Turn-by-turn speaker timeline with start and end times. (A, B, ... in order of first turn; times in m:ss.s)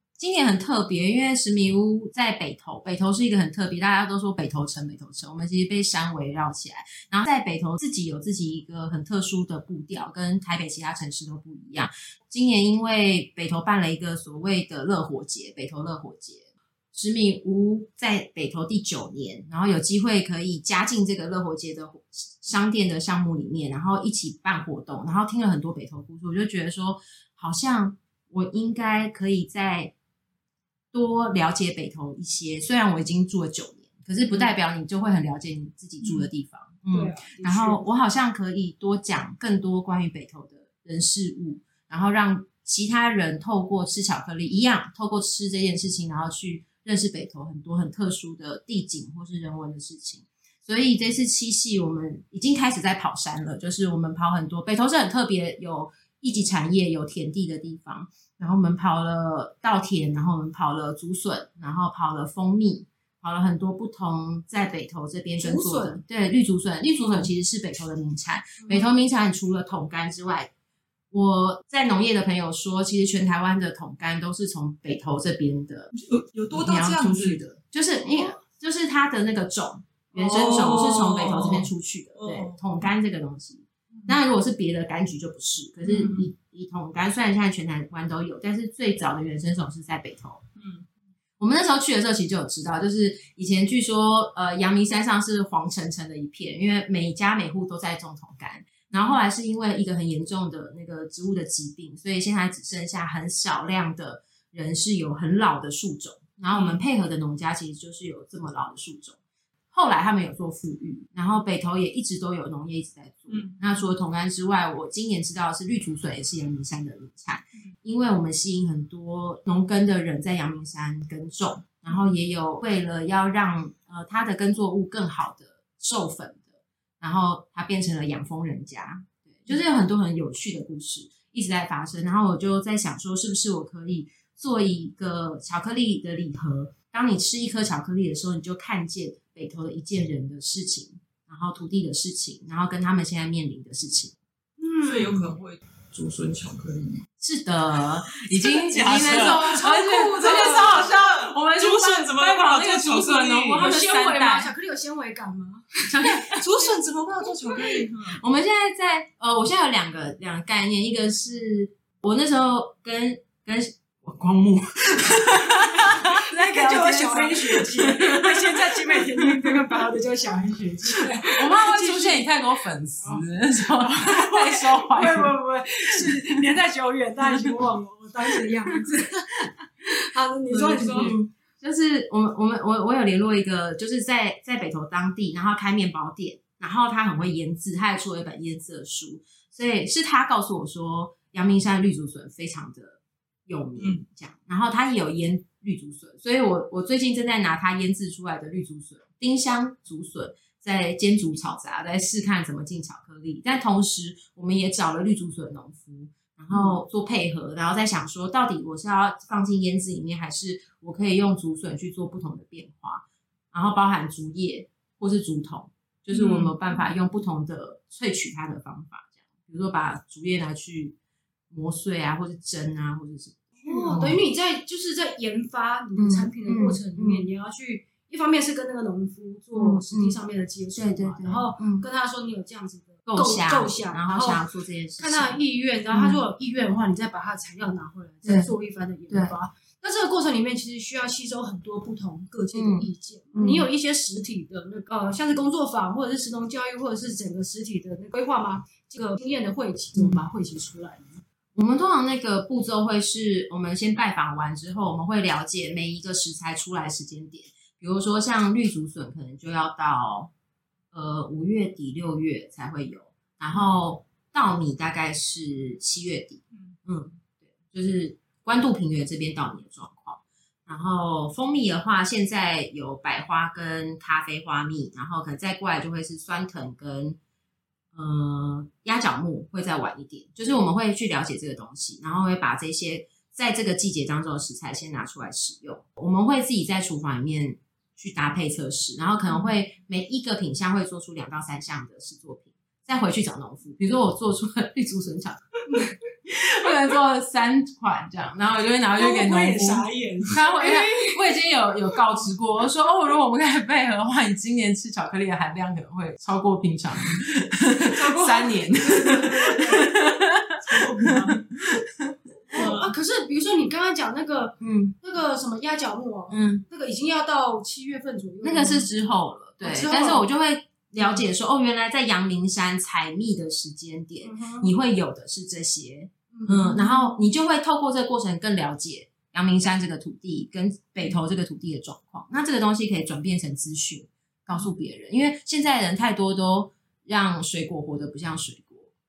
0:00.2-0:29.9 A
0:30.9-1:10.5 A
0:36.9-0:37.8 B
1:05.4-1:06.0 B
1:07.0-1:07.3 B
1:08.6-1:08.9 B
1:11.1-1:15.9 A
1:15.9-1:17.4 C
1:16.5-1:30.4 A
1:20.1-1:22.6 C
1:25.8-1:26.2 C
1:30.6-1:30.8 C
1:31.4-1:49.2 A
1:46.5-1:46.8 C
1:49.7-2:24.2 A
1:53.3-1:53.6 C
2:24.6-2:25.3 B
2:24.8-2:27.0 C
2:27.2-2:34.5 A
2:28.4-2:33.7 C
2:29.6-2:30.8 B
2:33.5-2:36.7 B
2:35.9-2:36.4 A
2:36.4-2:38.2 C
2:37.6-2:49.8 A
2:45.8-2:52.3 B
2:51.3-2:55.3 A
2:53.0-3:01.1 B
3:00.5-3:40.9 A
3:13.8-3:14.0 C
3:36.1-3:36.6 C
3:41.5-3:44.2 A
3:43.6-3:54.4 B
3:46.0-3:47.3 A
3:49.5-3:50.2 A
3:50.7-3:51.8 A
3:53.1-3:55.4 A
3:55.0-4:11.2 B
3:55.9-3:56.2 A
3:58.2-3:58.5 A
3:59.1-3:59.3 A
4:02.5-4:03.7 A
4:10.0-4:10.2 A
4:11.6-4:20.3 A
4:20.9-4:37.2 A
4:37.9-5:10.6 A
4:58.9-5:01.2 B
5:07.7-5:09.9 B
5:10.6-5:11.4 B
5:12.5-5:18.9 B
5:12.6-5:12.9 C
5:14.6-5:14.9 A
5:16.3-5:16.6 A
5:18.4-5:38.9 A
5:19.6-5:20.3 B
5:21.0-5:21.2 B
5:24.2-5:24.7 B
5:26.3-5:27.2 B